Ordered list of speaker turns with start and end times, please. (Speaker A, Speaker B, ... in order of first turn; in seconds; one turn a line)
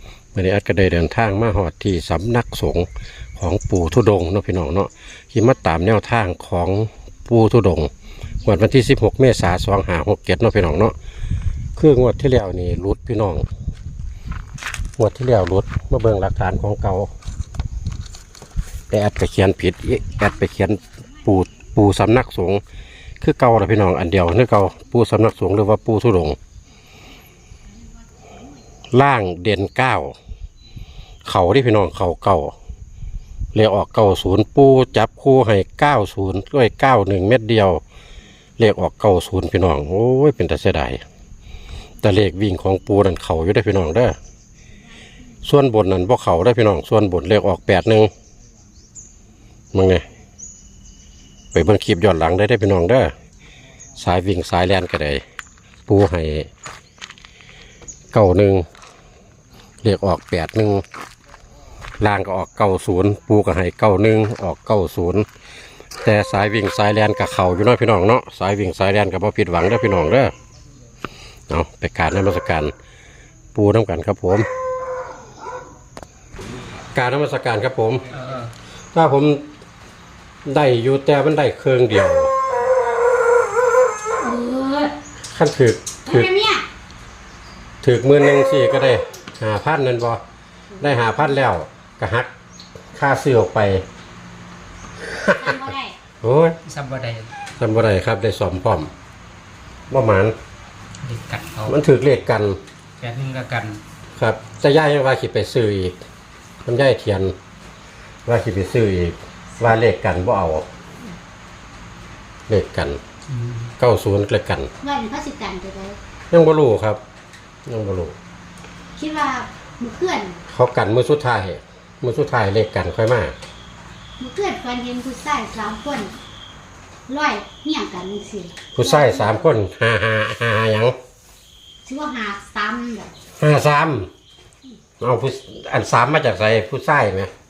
Speaker A: 0.3-7.9
Speaker A: 8.4-10.9
Speaker A: 11.8-13.4
Speaker A: 15.0-17.1
Speaker A: 18.9-22.6
Speaker A: 23.2-26.4
Speaker A: 28.9-30.1
Speaker A: 31.2-32.5
Speaker A: 33.5-37.8
Speaker A: 38.6-41.0
Speaker A: 42.0-44.2
Speaker A: 45.4-48.1
Speaker A: 49.7-50.0
Speaker A: 51.5-53.1
Speaker A: 54.0-55.2
Speaker A: 55.9-56.5
Speaker A: 58.1-58.7
Speaker A: 59.8-60.8
Speaker A: 62.0-65.3
Speaker A: 66.0-70.3
Speaker A: 71.5-72.7
Speaker A: 73.5-74.5
Speaker A: 76.9-78.0
Speaker B: 78.1-78.5
Speaker A: 78.9-79.4
Speaker A: 80.4-82.3
Speaker C: 84.2-84.9
Speaker A: 85.3-86.3
Speaker C: 86.0-86.6
Speaker A: 87.8-90.2
Speaker C: 90.7-91.3
Speaker A: 90.8-92.3
Speaker A: 92.9-93.8
Speaker A: 95.0-95.6
Speaker C: 95.3-96.0
Speaker A: 96.2-96.6
Speaker B: 96.7-97.3
Speaker A: 97.6-98.9
Speaker A: 99.9-100.3
Speaker B: 101.0-101.8
Speaker A: 101.7-102.6
Speaker B: 103.0-103.8
Speaker A: 104.2-106.0
Speaker A: 106.6-107.3
Speaker A: 108.2-110.7
Speaker A: 112.5-113.0
Speaker B: 113.3-113.7
Speaker A: 113.8-114.7
Speaker C: 114.8-116.0
Speaker A: 116.3-117.0
Speaker A: 117.7-118.1
Speaker C: 119.0-120.4
Speaker A: 120.5-123.3
Speaker C: 124.2-126.2
Speaker C: 127.1-129.5
Speaker A: 128.7-130.9
Speaker C: 131.8-133.1
Speaker A: 133.4-134.1
Speaker A: 135.0-137.3